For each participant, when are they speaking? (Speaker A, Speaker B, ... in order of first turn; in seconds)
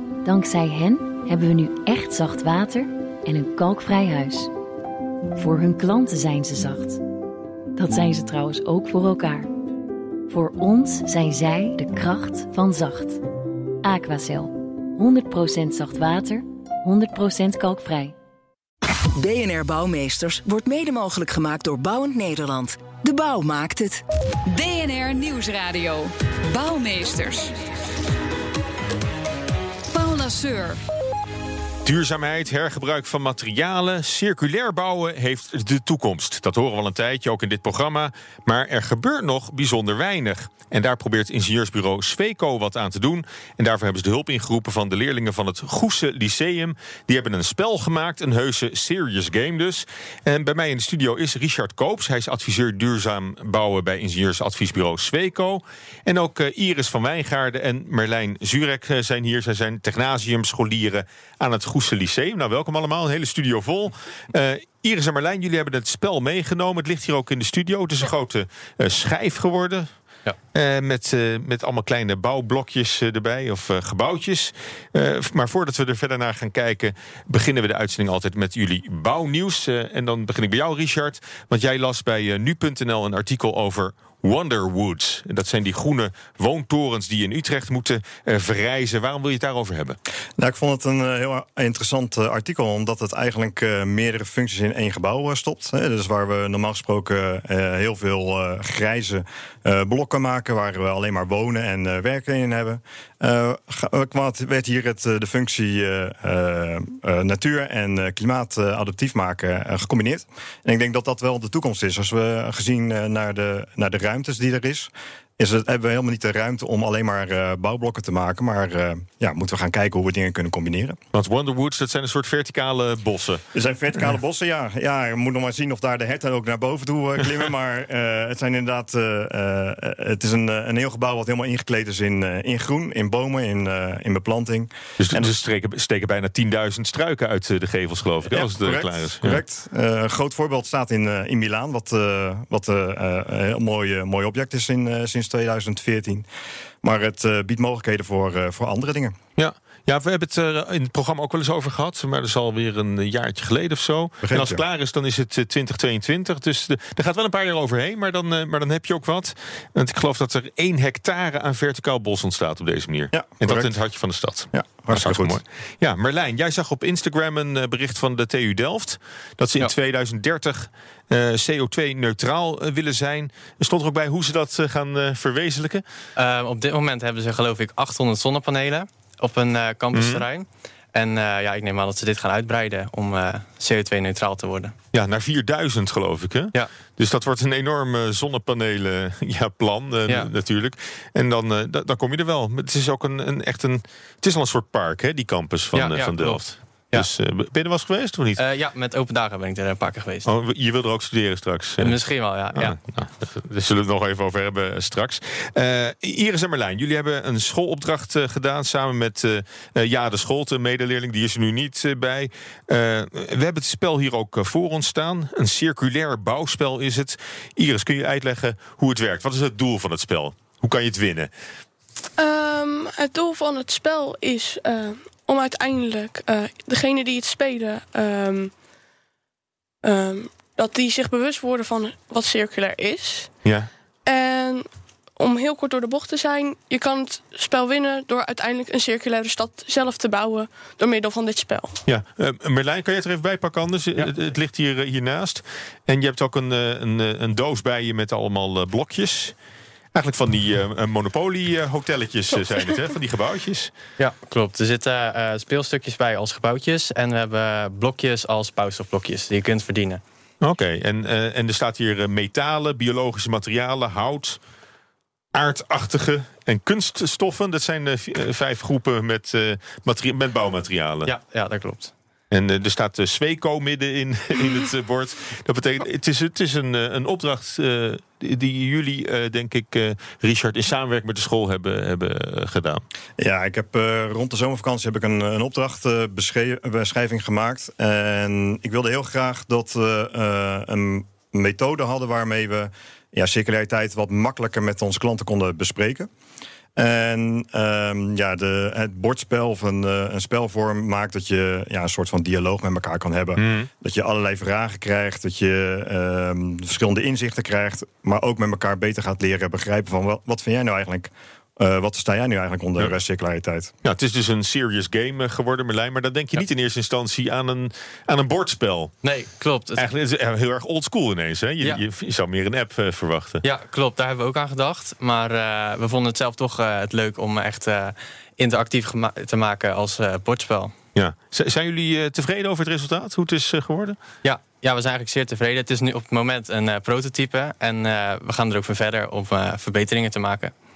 Speaker A: 0.2-4.5, 5.3-7.0, 7.8-9.5, 10.3-13.2, 13.8-18.1
Speaker B: 19.2-24.0
Speaker C: 24.5-27.5, 29.9-30.8
Speaker D: 31.8-69.9, 70.5-90.0, 121.1-123.4, 135.0-139.4, 149.4-175.8, 179.9-180.2, 184.9-198.4, 200.2-202.0, 202.5-221.3, 233.4-233.7, 241.8-249.3, 249.9-253.7, 260.4-264.4, 265.3-271.1, 272.3-282.8, 303.4-303.7, 313.8-318.9, 319.8-323.4, 330.9-334.0
Speaker E: 90.4-121.0, 123.5-135.3, 138.3-146.2, 146.8-149.2, 154.2-154.6, 163.1-163.7, 164.5-165.4, 283.2-296.1, 296.8-313.7
Speaker F: 176.2-184.7, 195.7-197.1, 198.4-200.3, 201.8-202.8, 254.0-260.0, 271.1-271.9, 319.0-319.8, 323.4-330.7, 334.2-340.5
Speaker G: 222.2-228.5, 229.8-233.3, 234.0-241.8